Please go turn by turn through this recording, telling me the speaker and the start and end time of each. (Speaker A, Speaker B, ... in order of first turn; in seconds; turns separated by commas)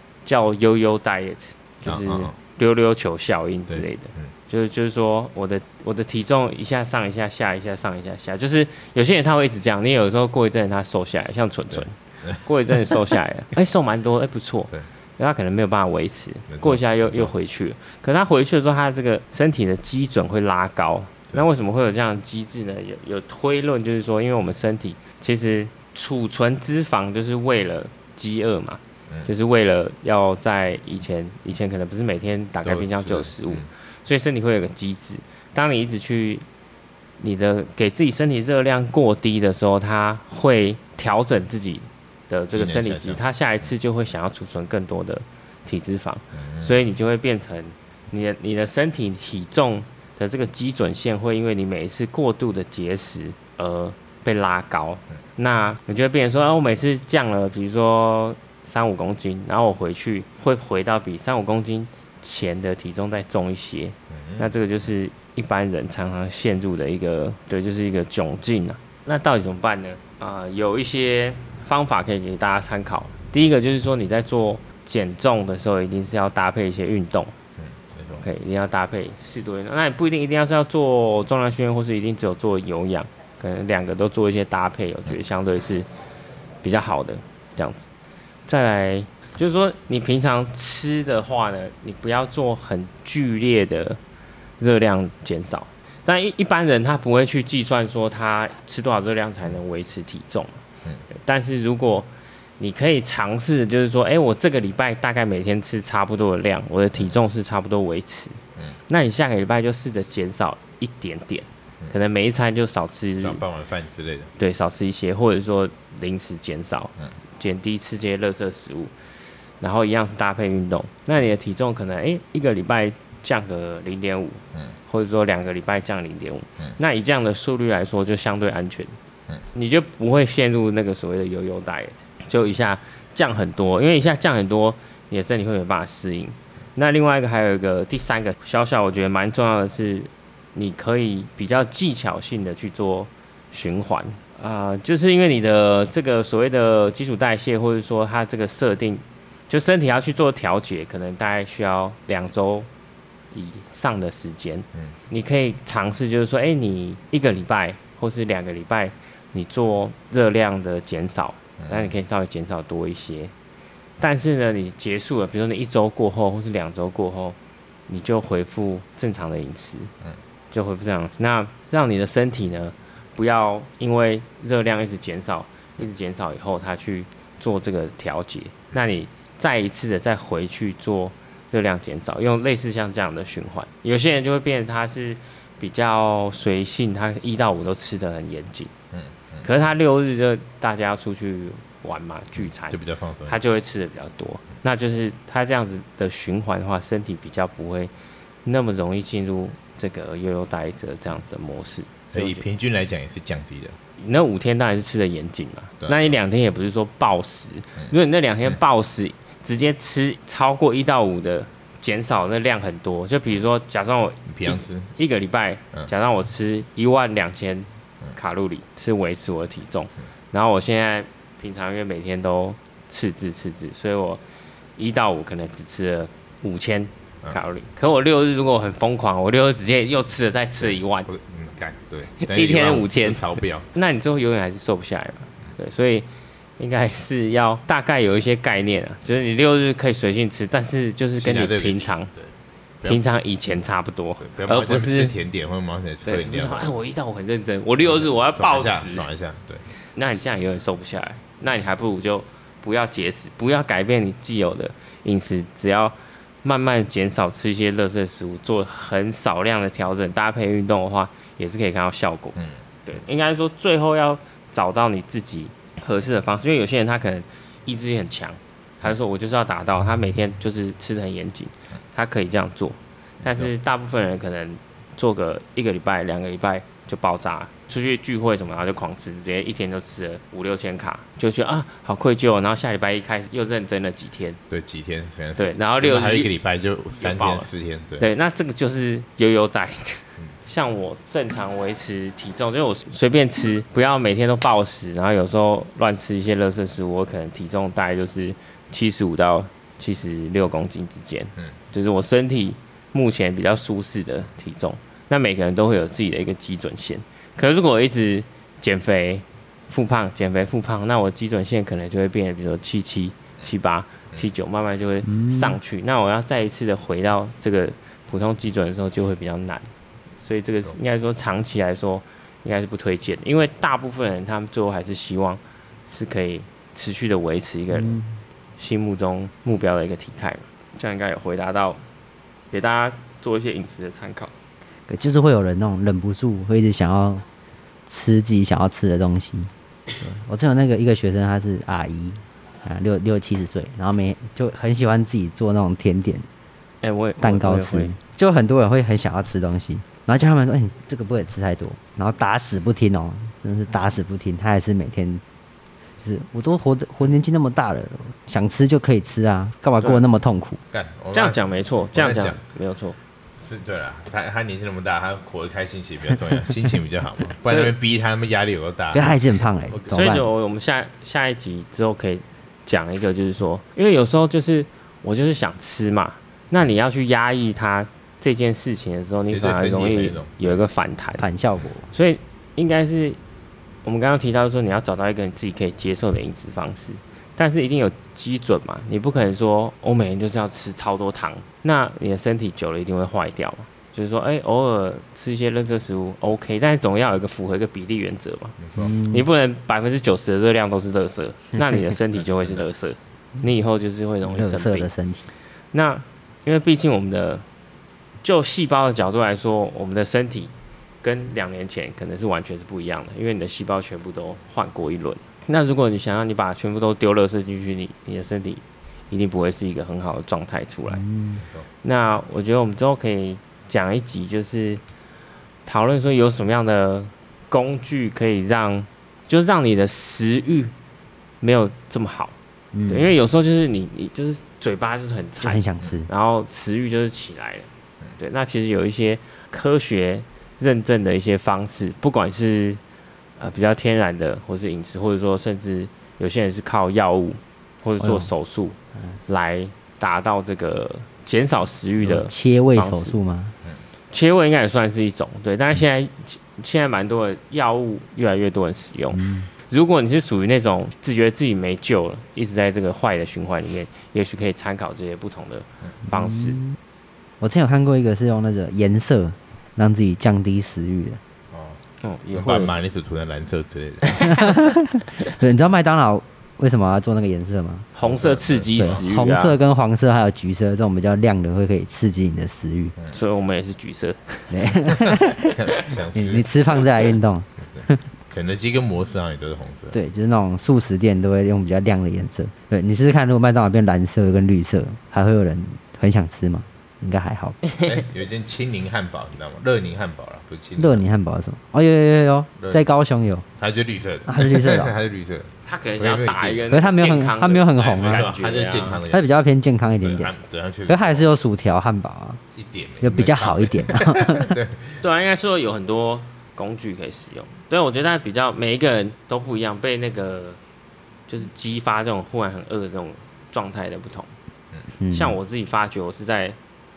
Speaker A: 0.2-36.5, Speaker B: 1.9-2.4, Speaker B: 3.7-4.3, Speaker B: 11.8-12.4, Speaker B: 16.5-17.3, Speaker B: 32.6-33.7, Speaker A: 37.2-77.3, Speaker B: 42.5-43.2, Speaker B: 46.3-46.8, Speaker B: 64.1-64.5, Speaker B: 77.6-78.2, Speaker A: 78.2-85.9, Speaker A: 86.6-87.9, Speaker A: 88.5-94.0, Speaker A: 94.6-113.4, Speaker B: 113.2-114.3, Speaker A: 114.4-118.9, Speaker A: 119.6-128.9, Speaker A: 129.5-152.7, Speaker A: 153.3-163.3, Speaker B: 161.6-161.9, Speaker A: 164.0-167.4, Speaker A: 167.9-169.9, Speaker A: 170.5-188.7, Speaker B: 188.9-189.5, Speaker A: 189.4-197.9, Speaker B: 192.7-193.4, Speaker A: 198.4-202.4, Speaker B: 202.1-203.8, Speaker A: 204.0-224.2, Speaker B: 205.8-206.2, Speaker B: 214.3-214.9, Speaker A: 224.8-231.1, Speaker B: 230.6-233.7, Speaker A: 232.2-236.1, Speaker A: 236.6-242.1, Speaker B: 241.2-243.0, Speaker A: 242.9-245.2, Speaker B: 244.2-246.8, Speaker A: 246.1-249.1, Speaker B: 247.8-249.7, Speaker A: 249.9-284.4, Speaker B: 284.5-288.1, Speaker A: 285.4-286.3, Speaker A: 287.0-319.7, Speaker C: 315.1-315.6, Speaker A: 320.2-328.0, Speaker C: 327.7-328.2, Speaker A: 328.6-331.8, Speaker A: 332.5-334.3, Speaker C: 334.9-337.2, Speaker C: 337.9-346.3, Speaker A: 346.8-348.0, Speaker C: 347.2-355.2, Speaker C: 356.0-360.6, Speaker B: 360.7-362.4, Speaker A: 361.1-363.0, Speaker B: 363.4-370.2, Speaker A: 367.4-367.7, Speaker C: 368.9-370.3, Speaker A: 369.9-381.2, Speaker B: 379.3-380.6, Speaker C: 381.2-381.9, Speaker A: 381.9-383.2, Speaker A: 383.9-404.9, Speaker B: 398.6-398.9, Speaker C: 398.8-399.3, Speaker B: 402.2-402.6, Speaker C: 404.2-405.3, Speaker A: 405.7-407.4, Speaker A: 408.2-410.5, Speaker A: 411.0-421.1, Speaker C: 420.9-421.4, Speaker A: 421.8-424.8, Speaker A: 425.7-430.7, Speaker A: 431.4-432.4, Speaker C: 432.7-433.1, Speaker A: 432.9-442.8, Speaker C: 435.4-436.1, Speaker A: 443.4-453.1, Speaker C: 448.0-448.3, Speaker C: 452.0-453.6, Speaker A: 454.1-466.6, Speaker C: 459.1-459.5, Speaker C: 466.1-466.8, Speaker C: 467.4-471.2, Speaker B: 471.5-471.8, Speaker A: 472.0-472.7, Speaker B: 472.3-474.5, Speaker A: 474.1-474.4, Speaker C: 474.3-477.9, Speaker A: 477.9-479.6, Speaker B: 478.0-479.0, Speaker C: 478.8-482.9, Speaker A: 483.1-485.9, Speaker C: 484.5-485.5, Speaker B: 485.1-486.5, Speaker C: 486.1-488.1, Speaker B: 487.7-490.0, Speaker C: 489.9-497.6, Speaker B: 497.8-501.0, Speaker C: 500.8-503.4, Speaker B: 502.6-502.9, Speaker B: 503.6-506.6, Speaker C: 504.3-504.9, Speaker A: 505.6-509.0, Speaker C: 506.7-508.3, Speaker B: 507.8-509.2, Speaker C: 509.1-510.3, Speaker B: 510.0-511.3, Speaker C: 510.9-512.4, Speaker B: 512.6-515.0, Speaker C: 513.0-514.5, Speaker A: 515.0-520.6, Speaker A: 521.3-524.3, Speaker C: 525.0-525.4, Speaker A: 525.1-526.6